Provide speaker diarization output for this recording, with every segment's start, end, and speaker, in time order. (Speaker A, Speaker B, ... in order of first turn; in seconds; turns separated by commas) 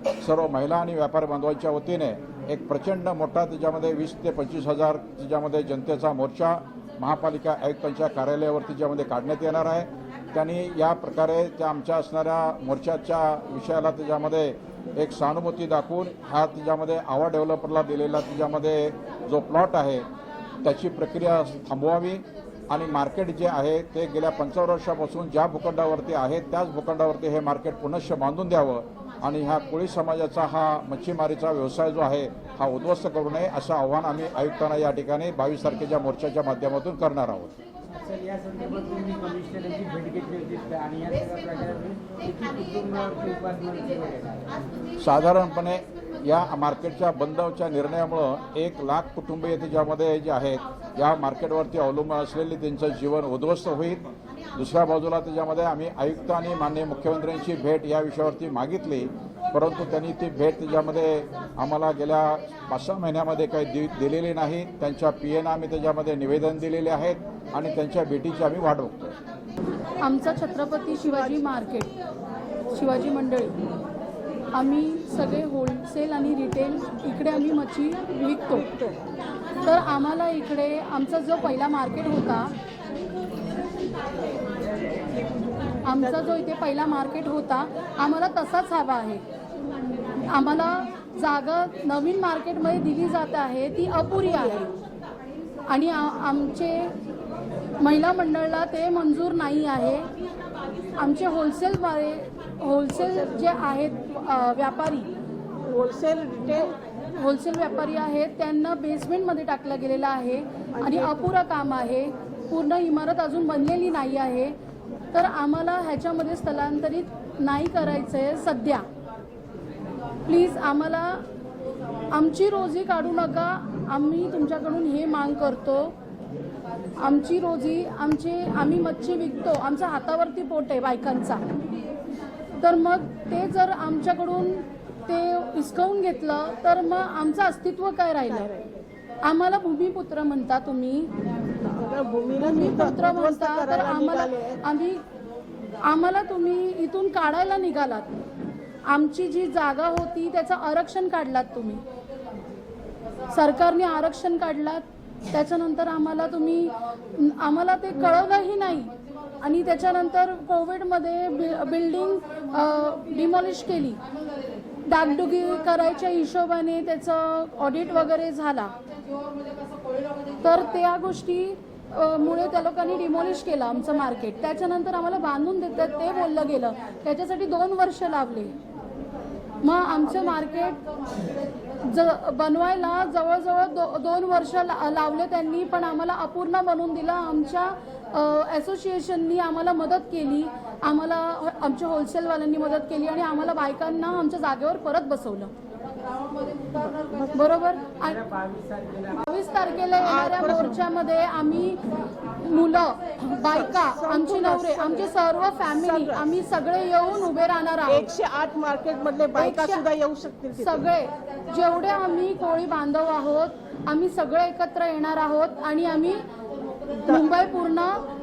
Speaker A: 0.2-20.1, Speaker A: 20.6-37.5, Speaker B: 37.9-44.5, Speaker A: 45.0-54.0, Speaker A: 54.6-69.2, Speaker C: 70.0-71.9, Speaker C: 72.7-73.6, Speaker C: 74.5-78.7, Speaker D: 78.5-79.0, Speaker C: 79.7-82.5, Speaker C: 85.8-89.2, Speaker D: 85.9-86.4, Speaker C: 90.3-94.7, Speaker C: 95.7-96.9, Speaker C: 97.8-100.1, Speaker C: 101.0-105.1, Speaker D: 105.6-106.8, Speaker C: 107.2-114.5, Speaker D: 110.8-111.3, Speaker C: 115.1-118.9, Speaker C: 120.3-121.2, Speaker C: 122.1-126.0, Speaker C: 127.0-131.5, Speaker C: 132.6-138.5, Speaker D: 138.3-138.6, Speaker C: 139.2-141.1, Speaker D: 141.6-144.6, Speaker C: 142.4-145.0, Speaker C: 145.8-148.2, Speaker C: 148.9-151.8, Speaker C: 153.3-164.0, Speaker C: 164.9-168.8, Speaker C: 170.4-178.5, Speaker C: 179.6-180.8, Speaker C: 181.8-195.5, Speaker D: 196.8-197.5, Speaker C: 197.3-198.2, Speaker B: 198.2-199.2, Speaker C: 199.1-201.8, Speaker D: 200.0-200.8, Speaker C: 202.4-208.1, Speaker D: 203.3-205.1, Speaker D: 205.8-206.2, Speaker D: 207.9-210.9, Speaker C: 209.4-209.8, Speaker C: 210.6-216.2, Speaker C: 217.1-218.1